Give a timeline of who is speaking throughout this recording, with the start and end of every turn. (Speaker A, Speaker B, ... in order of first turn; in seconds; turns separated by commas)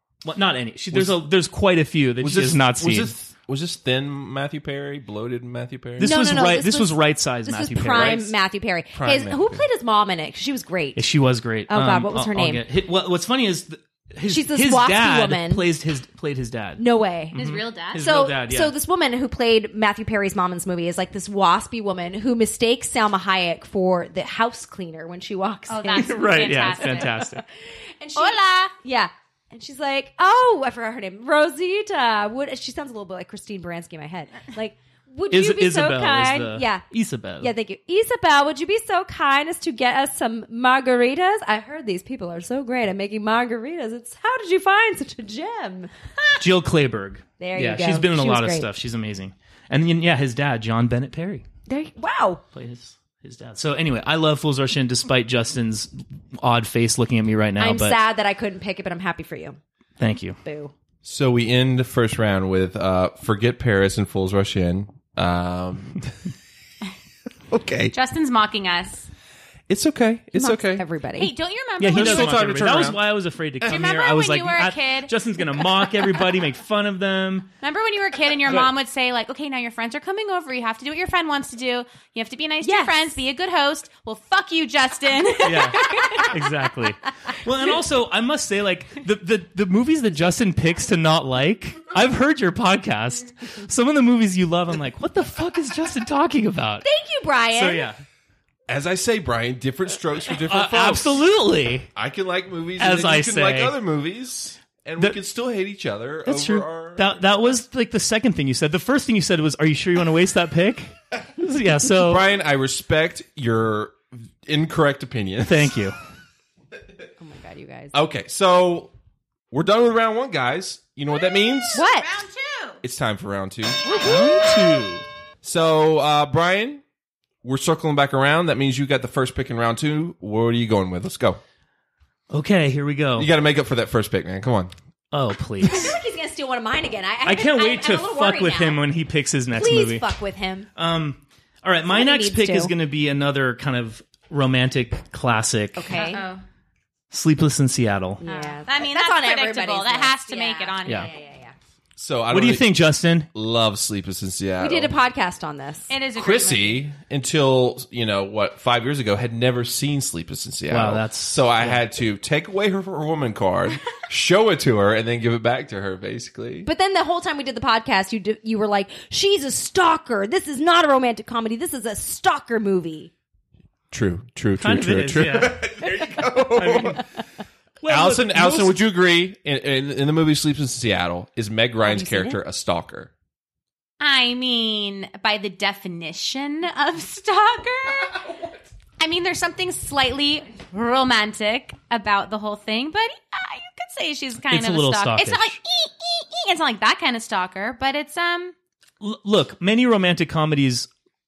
Speaker A: 0.2-3.1, Speaker B: 0.9-1.2, Speaker B: 2.2-6.2, Speaker A: 6.0-8.4, Speaker C: 6.0-11.1, Speaker B: 8.9-9.7, Speaker A: 11.0-18.7, Speaker C: 11.7-12.6, Speaker C: 14.3-15.7, Speaker C: 16.8-17.4, Speaker D: 17.4-18.0, Speaker C: 17.9-36.8, Speaker D: 25.7-27.1, Speaker A: 26.0-27.4, Speaker D: 28.1-28.7, Speaker A: 35.3-37.5, Speaker C: 37.4-45.9, Speaker A: 46.4-51.5, Speaker C: 47.4-48.7, Speaker C: 51.7-52.4, Speaker A: 52.5-58.0, Speaker C: 57.6-59.6, Speaker A: 60.0-60.4, Speaker C: 60.4-60.7, Speaker B: 61.0-66.1, Speaker B: 67.5-67.9, Speaker D: 67.9-69.1, Speaker B: 69.7-70.8, Speaker C: 70.3-71.3, Speaker D: 71.2-72.5, Speaker A: 71.8-77.5, Speaker B: 71.9-73.0, Speaker D: 73.7-75.1, Speaker D: 77.6-86.3, Speaker C: 82.6-83.1, Speaker A: 85.4-96.9, Speaker C: 85.8-86.4, Speaker C: 96.8-97.9, Speaker A: 97.5-98.0, Speaker B: 98.7-101.2, Speaker A: 100.5-101.9, Speaker B: 102.0-107.6, Speaker A: 102.8-103.8, Speaker A: 106.2-112.2, Speaker B: 112.0-115.8, Speaker A: 115.4-116.0, Speaker C: 117.2-118.0, Speaker B: 117.9-118.9, Speaker B: 119.5-121.8, Speaker D: 121.1-122.8, Speaker C: 121.7-122.1, Speaker B: 122.8-124.0, Speaker C: 123.9-124.8, Speaker A: 124.0-125.0, Speaker B: 125.4-126.8, Speaker B: 127.4-131.4, Speaker A: 132.3-133.3, Speaker B: 133.2-134.7, Speaker A: 135.1-135.9, Speaker C: 135.6-138.8, Speaker A: 137.2-140.1, Speaker C: 139.5-140.7, Speaker A: 140.8-145.9, Speaker C: 141.9-142.7, Speaker C: 145.8-146.3, Speaker D: 145.9-146.4, Speaker A: 147.1-148.2, Speaker C: 148.2-151.6, Speaker D: 148.2-151.1, Speaker B: 152.0-154.9, Speaker A: 152.3-153.3, Speaker C: 154.6-155.9, Speaker D: 155.9-156.8, Speaker B: 156.2-166.7, Speaker A: 160.7-161.8, Speaker C: 166.6-173.1, Speaker B: 173.9-177.0, Speaker A: 174.6-175.7, Speaker A: 176.6-177.0, Speaker A: 177.8-178.8, Speaker B: 177.9-183.1, Speaker C: 181.8-182.4, Speaker D: 184.0-188.2, Speaker D: 189.0-198.5, Speaker A: 194.5-195.6, Speaker A: 199.0-200.9